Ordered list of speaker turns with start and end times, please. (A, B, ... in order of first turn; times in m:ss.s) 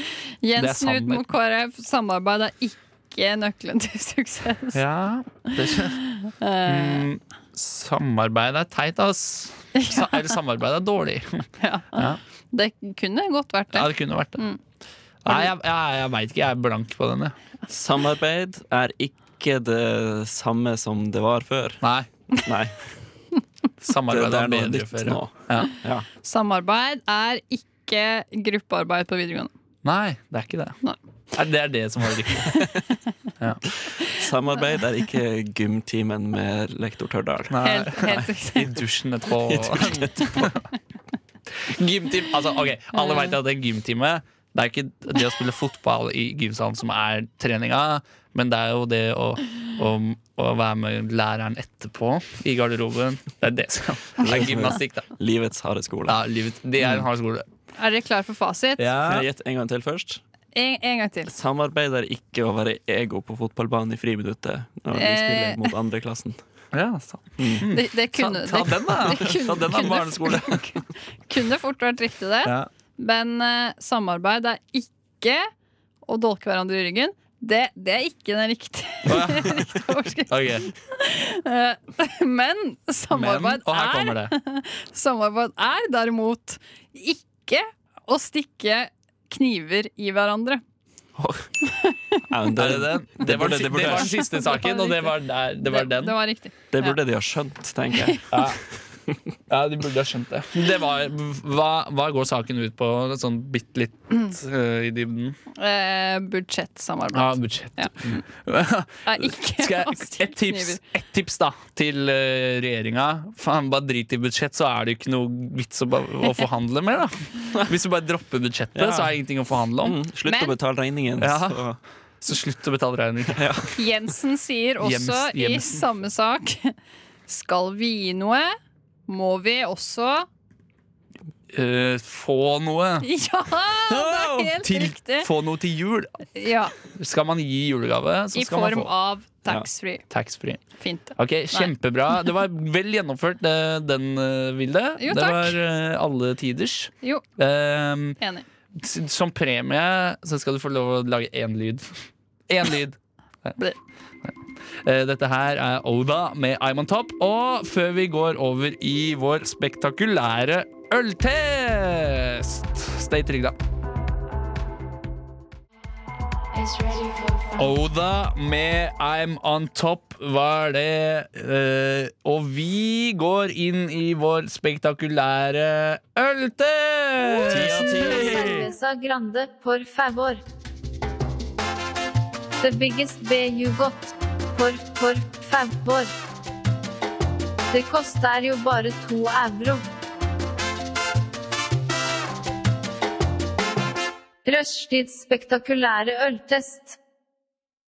0:00.4-0:04.8 A
0:00.6-0:01.2 B
0:04.7-0:06.0 B
0:06.1-0:07.1 A
0:06.6-0:12.2 B
0:09.8-0:10.3 A
0:11.6-0:14.6 A
0:13.7-0:14.4 B
0:15.2-0:17.3 B
0:17.7-0:21.8 C
0:21.8-0:22.1 B
0:22.4-0:22.8 C
0:23.8-0:25.7 B
0:24.1-0:26.1 C
0:26.2-0:29.5 A
0:29.8-0:30.8 B
0:31.3-0:32.6 B
0:33.8-0:37.6 C
0:37.5-0:40.6 B
0:37.6-0:38.8 A
0:39.4-0:40.4 C
0:41.6-0:55.1 B
0:54.2-0:56.2 C
0:56.1-0:57.4 B
0:56.8-0:57.0 C
0:57.8-0:58.8 A
0:58.8-0:59.2 B
0:59.0-1:00.2 C
1:00.5-1:01.3 A
1:01.3-1:06.4 C
1:04.9-1:05.7 A
1:06.7-1:10.6 B
1:07.4-1:07.7 C
1:07.7-1:15.5 A
1:16.0-1:30.6 A
1:19.0-1:19.6 B
1:20.3-1:20.7 B
1:23.1-1:24.3 B
1:31.2-1:31.5 C
1:31.6-1:32.2 A
1:32.3-1:34.2 C
1:32.6-1:36.2 B
1:33.8-1:37.0 A
1:36.7-1:38.2 C
1:37.9-1:38.2 A
1:38.3-1:38.6 B
1:39.5-1:45.4 B
1:45.6-1:48.2 A
1:47.1-2:00.0 B
1:49.1-1:50.8 A
1:58.7-1:59.2 C
1:59.8-2:01.8 C
2:00.2-2:00.6 A
2:01.2-2:01.6 B
2:02.2-2:03.4 B
2:03.3-2:03.8 C
2:03.8-2:06.7 A
2:04.8-2:05.8 B
2:07.3-2:08.6 A
2:09.1-2:10.3 A
2:11.5-2:13.1 B
2:13.0-2:15.3 A
2:13.9-2:14.5 C
2:14.6-2:16.1 B
2:16.4-2:16.7 A
2:16.9-2:18.9 B
2:18.3-2:20.0 A
2:20.1-2:20.6 B
2:20.8-2:21.7 A
2:21.2-2:28.2 B
2:25.0-2:25.6 A
2:28.2-2:28.4 A
2:28.8-2:31.9 B
2:32.5-2:33.6 B
2:34.8-2:43.6 B
2:46.8-2:47.2 A
2:47.6-2:58.7 B
2:57.4-3:00.4 D
2:57.5-2:58.6 C
3:02.6-3:06.1 D
3:07.7-3:09.9 D
3:14.4-3:17.0 D